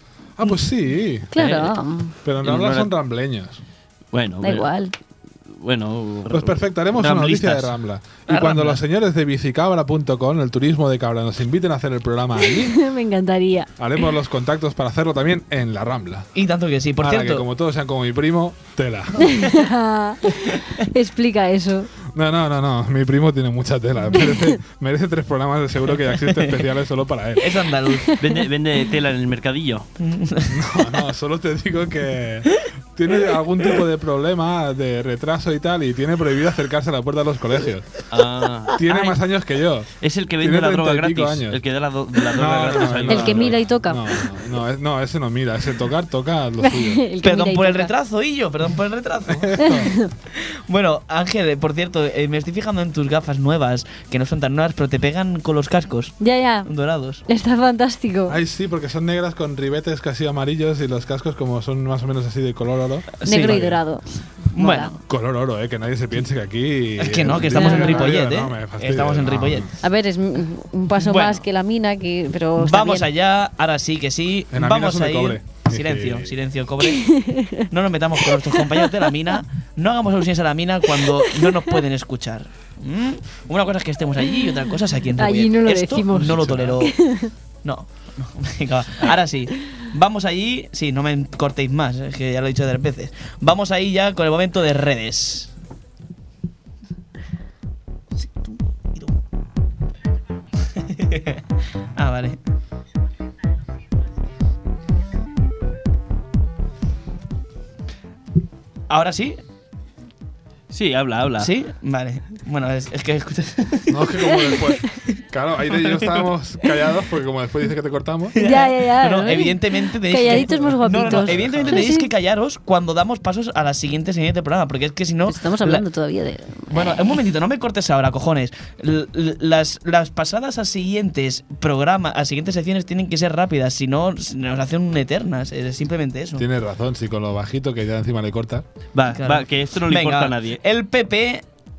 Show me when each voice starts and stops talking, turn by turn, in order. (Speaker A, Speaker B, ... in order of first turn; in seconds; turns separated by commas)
Speaker A: 0.4-1.3, Speaker B: 1.3-2.1, Speaker C: 1.3-1.8, Speaker A: 2.2-3.6, Speaker C: 2.4-2.9, Speaker C: 4.1-4.7, Speaker B: 4.4-4.9, Speaker C: 5.6-7.7, Speaker A: 6.3-12.8, Speaker D: 8.3-8.8, Speaker B: 12.5-13.7, Speaker A: 13.8-16.3, Speaker D: 16.3-17.4, Speaker A: 17.0-19.4, Speaker B: 19.2-21.9, Speaker A: 22.1-27.6, Speaker B: 24.1-24.6, Speaker D: 26.0-26.6, Speaker D: 27.4-28.1, Speaker B: 28.0-28.4, Speaker C: 28.2-29.9, Speaker D: 30.0-31.0, Speaker A: 30.5-38.0, Speaker C: 38.1-39.2, Speaker A: 38.7-41.6, Speaker C: 40.0-43.6, Speaker A: 42.3-47.0, Speaker B: 43.1-44.3, Speaker B: 46.6-47.9, Speaker D: 47.2-49.8, Speaker A: 49.3-49.9, Speaker B: 49.6-50.1, Speaker D: 50.3-57.2, Speaker B: 56.2-56.7, Speaker B: 57.3-58.4, Speaker A: 58.3-63.8, Speaker D: 63.2-63.6, Speaker B: 63.2-64.9, Speaker D: 64.5-65.0, Speaker A: 65.1-69.7, Speaker D: 67.0-69.7, Speaker B: 67.5-68.1, Speaker B: 69.8-73.1, Speaker D: 71.0-71.4, Speaker D: 72.6-87.1, Speaker A: 74.5-76.3, Speaker B: 76.8-77.7, Speaker B: 78.2-78.8, Speaker B: 81.0-81.7, Speaker B: 84.2-84.6, Speaker B: 85.1-87.3, Speaker A: 86.2-86.8, Speaker D: 87.6-95.5, Speaker D: 98.2-99.2, Speaker D: 100.6-101.4, Speaker D: 102.0-102.4, Speaker D: 108.9-109.4, Speaker C: 110.7-111.5, Speaker D: 111.4-114.6, Speaker A: 113.9-118.3, Speaker D: 115.7-116.3, Speaker D: 118.3-125.8, Speaker B: 118.3-122.1, Speaker A: 121.1-121.8, Speaker B: 125.3-126.9, Speaker D: 126.7-136.4, Speaker A: 136.4-138.6, Speaker C: 138.9-140.6, Speaker D: 139.1-141.4